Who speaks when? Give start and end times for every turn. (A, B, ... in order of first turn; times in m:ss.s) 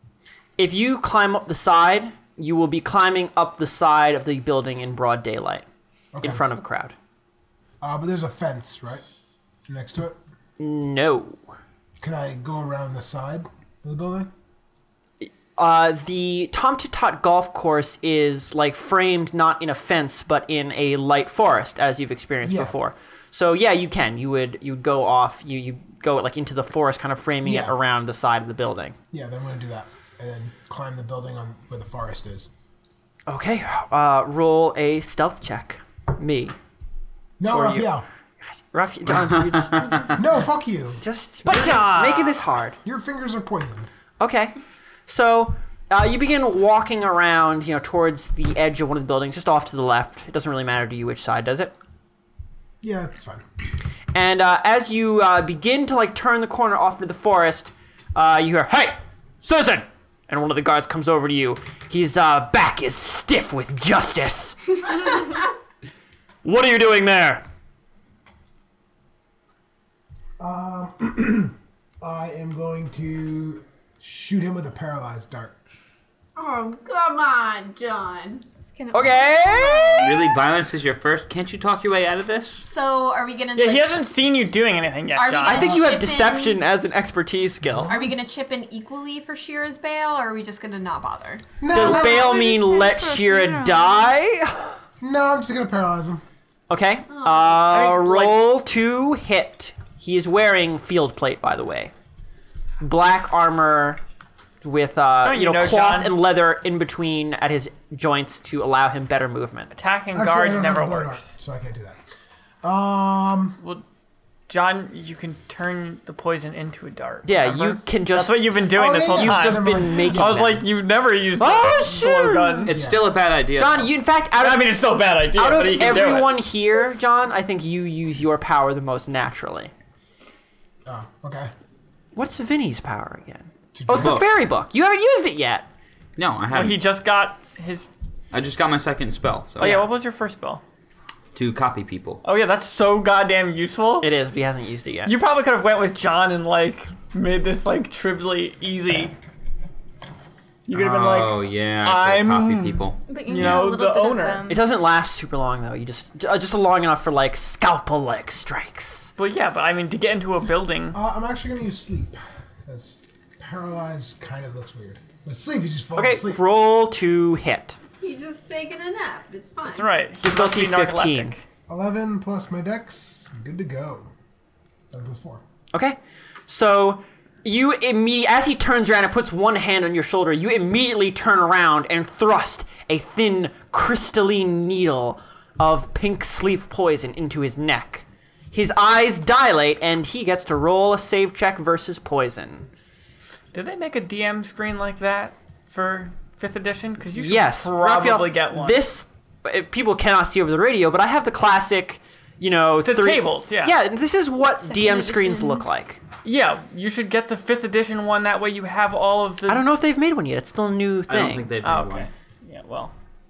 0:00.6-0:05.6 A
0:06.1-0:06.4 B
0:06.2-0:06.9 A
0:07.8-0:09.0 B
0:09.7-0:10.2 B
0:10.6-0:11.4 A
0:12.0-0:14.3 B
0:15.2-0:28.9 A
0:22.4-0:22.7 B
0:27.4-0:27.8 B
0:29.1-0:32.5 B
0:33.3-0:36.5 A
0:37.4-0:38.0 B
0:37.5-0:38.0 A
0:38.7-0:40.2 A
0:40.2-0:41.0 B
0:41.0-0:42.8 A
0:41.4-0:42.4 C
0:41.5-0:41.8 B
0:42.8-0:43.9 B
0:44.2-0:44.5 A
0:45.1-0:51.7 A
0:52.8-0:53.4 B
0:54.1-1:04.6 A
1:06.4-1:07.4 A
1:10.4-1:15.6 B
1:16.4-1:18.4 D
1:18.7-1:20.4 E
1:18.9-1:20.2 A
1:20.0-1:22.6 F
1:22.6-1:24.1 D
1:23.6-1:25.8 C
1:25.1-1:26.6 D
1:25.4-1:27.9 A
1:27.6-1:28.1 B
1:27.9-1:31.4 D
1:31.6-1:32.4 B
1:31.7-1:34.7 A
1:31.9-1:34.2 E
1:35.0-1:36.2 B
1:36.7-1:41.9 A
1:37.1-1:37.7 D
1:37.7-1:38.4 C
1:42.8-1:44.0 A
1:44.6-1:49.7 A
1:45.2-1:46.2 C
1:49.7-1:51.3 C
1:50.1-1:53.6 B
1:54.5-2:02.7 C
1:57.2-2:00.6 A
1:58.7-2:00.5 B
2:01.4-2:02.7 A
2:02.6-2:03.9 F
2:02.7-2:03.1 B
2:03.6-2:04.8 A
2:04.4-2:06.4 C
2:05.3-2:09.7 A
2:10.8-2:11.5 B
2:12.1-2:15.7 A
2:13.7-2:14.2 B
2:14.0-2:14.3 F
2:16.2-2:16.8 F
2:16.5-2:17.9 C
2:18.3-2:19.9 F
2:19.6-2:20.6 C
2:21.3-2:22.2 F
2:22.2-2:24.1 C
2:24.0-2:25.1 A
2:25.0-2:29.1 C
2:30.7-2:34.4 C
2:30.7-2:33.7 F
2:33.0-2:34.6 E
2:34.5-2:39.1 A
2:39.2-2:41.0 C
2:40.9-2:46.4 B
2:45.9-2:47.8 A
2:48.0-2:49.9 D
2:49.7-2:51.4 C
2:50.2-2:51.4 A
2:51.7-2:54.1 B
2:54.9-2:55.4 B
2:56.5-3:12.7 A
3:13.5-3:18.8 C
3:17.2-3:26.0 A
3:22.8-3:23.8 C
3:24.7-3:25.6 E
3:26.2-3:29.6 C
3:29.5-3:31.5 A
3:31.1-3:32.1 F
3:31.6-3:32.9 C